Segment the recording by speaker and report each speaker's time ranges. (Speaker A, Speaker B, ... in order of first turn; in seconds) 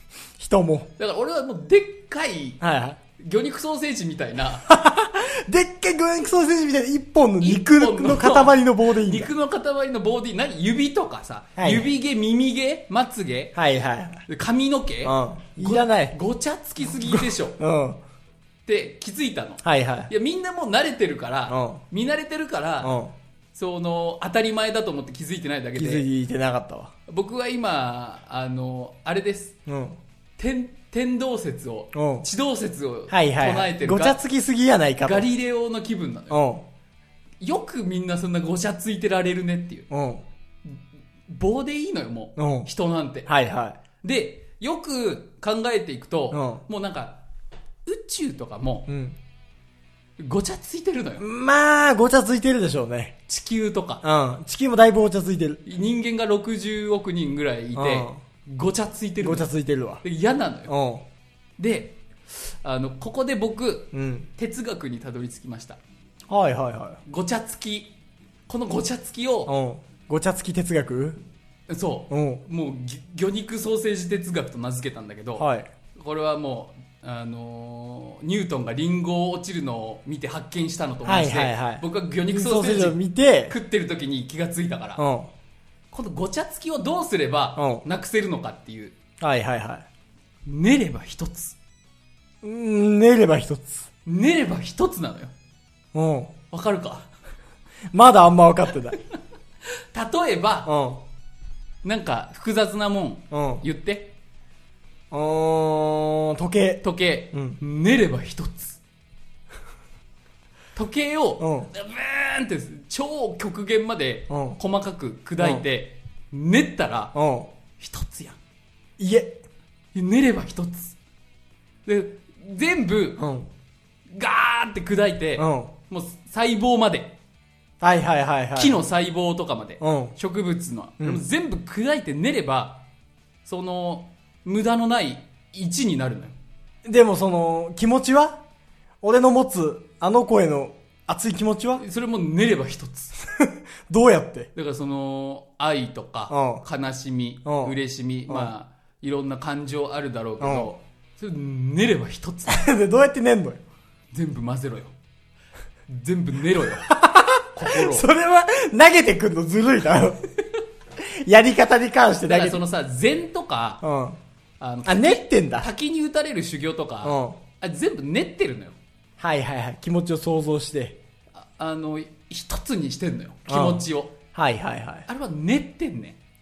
Speaker A: 0.4-0.9, 2.6-3.0, 4.7-9.3, 11.6-11.9, 13.6-14.2, 15.0-16.2, 16.9-18.0, 19.6-20.1, 21.5-21.8, 22.8-23.1, 25.8-26.9, 29.7-30.0, 31.9-32.3, 33.1-35.3, 36.3-36.6, 39.9-40.2, 42.4-42.7, 43.3-43.8, 46.3-46.6, 48.9-49.2, 51.2-53.1, 54.0-55.6, 57.8-58.2, 59.2-60.0, 60.7-61.0, 63.9-64.3, 66.3-67.0, 69.5-71.2, 72.1-72.4, 75.4-75.7, 81.0-83.5, 85.0-85.3, 87.6-87.8, 89.2-89.9, 92.4-93.9, 95.9-96.3, 97.9-99.0, 100.7-101.0, 103.3-103.6, 105.1-107.6, 111.4-111.7, 114.3-114.6, 115.4-115.6, 117.1-117.5, 119.0-119.4, 123.2-123.5, 125.4-125.7, 127.8-128.8, 129.8-130.2, 136.9-138.4, 139.0-141.8, 143.3-144.5, 146.3-146.6, 147.4-147.8, 150.4-150.7, 152.5-153.6, 156.9-160.2, 161.0-162.6, 163.8-164.2, 164.8-165.7, 167.0-167.4, 169.2-171.0, 173.5-173.8, 174.3-175.1
Speaker B: 1.0-2.6, 3.2-4.7, 7.4-13.6, 14.3-17.6, 18.7-23.0, 23.5-26.1, 27.1-29.6, 30.4-34.2, 35.0-36.4, 37.4-39.9, 40.7-43.3, 44.0-47.2, 47.9-48.9, 50.2-51.3, 53.3-54.0, 55.6-59.5, 60.0-60.7, 61.6-65.8, 67.1-67.9, 68.5-69.5, 71.7-85.0, 85.9-89.0, 90.5-91.6, 94.1-95.3, 96.5-97.1, 99.9-100.7, 101.8-104.1, 106.8-108.8, 110.8-117.2, 117.8-118.4, 119.9-121.0, 121.9-123.2, 124.1-127.2, 128.6-132.8, 133.4-136.3, 141.8-143.2, 144.6-152.7, 154.1-154.9, 155.9-157.0, 157.5-158.1, 162.3-163.8, 164.6-168.8, 171.4-174.1, 175.1-176.2